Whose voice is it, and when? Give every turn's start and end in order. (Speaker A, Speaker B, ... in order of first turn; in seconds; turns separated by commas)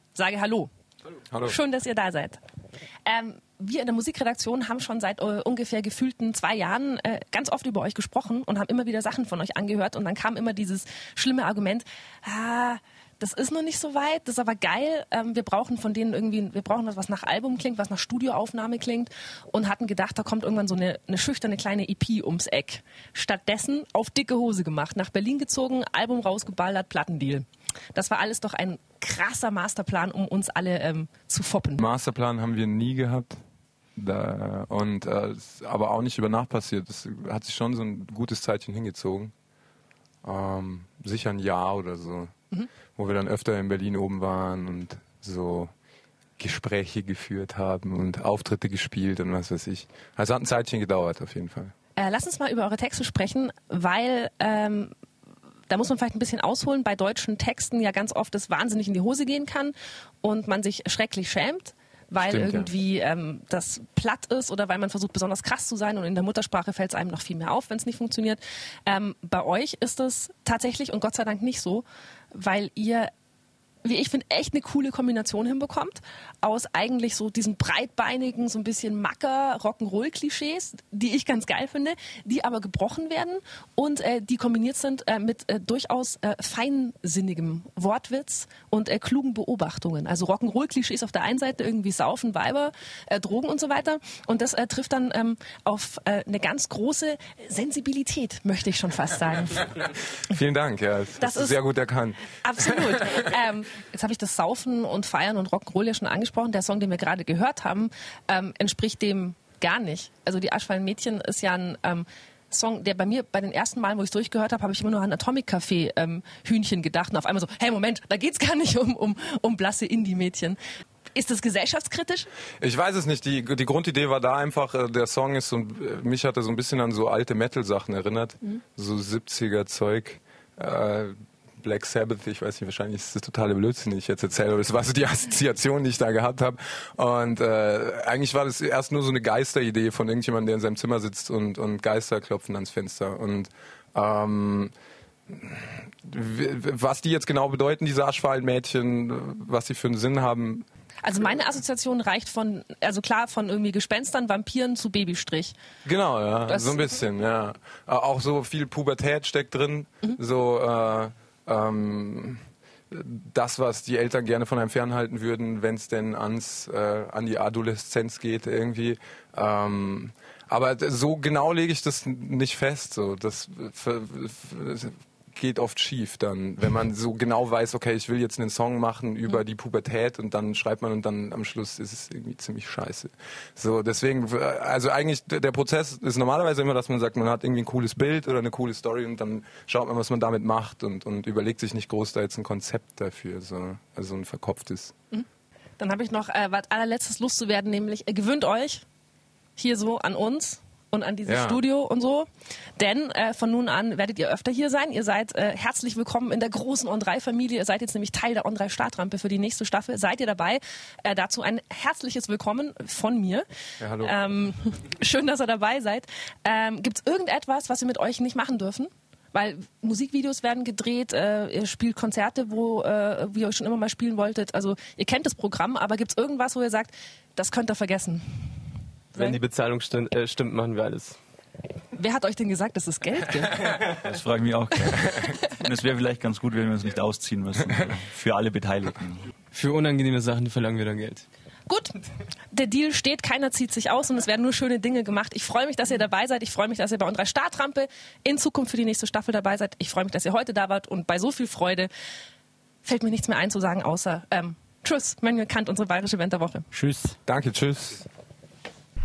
Speaker A: 0.1-0.7, Speaker A: 1.4-2.4, Speaker A: 3.0-31.8, Speaker B: 31.8-33.4, Speaker B: 34.0-39.3, Speaker B: 40.2-42.3, Speaker B: 42.9-45.7, Speaker B: 46.4-51.7, Speaker A: 52.0-54.9, Speaker A: 55.7-73.1, Speaker B: 62.2-62.7, Speaker A: 73.8-99.7, Speaker B: 100.3-102.7, Speaker A: 101.2-101.6, Speaker A: 102.4-120.6, Speaker A: 121.1-122.3, Speaker B: 122.6-144.7, Speaker B: 145.3-150.6, Speaker A: 151.0-155.5, Speaker B: 155.8-194.9, Speaker A: 156.5-156.8, Speaker A: 195.8-198.8, Speaker A: 199.6-213.4, Speaker B: 201.2-201.6, Speaker B: 213.8-214.1, Speaker A: 214.0-228.5, Speaker C: 229.1-231.2, Speaker A: 231.9-233.8, Speaker D: 234.0-239.2, Speaker C: 239.5-241.2, Speaker A: 241.7-242.0, Speaker A: 242.5-251.9, Speaker A: 252.8-256.7, Speaker D: 256.8-257.0, Speaker B: 257.2-258.1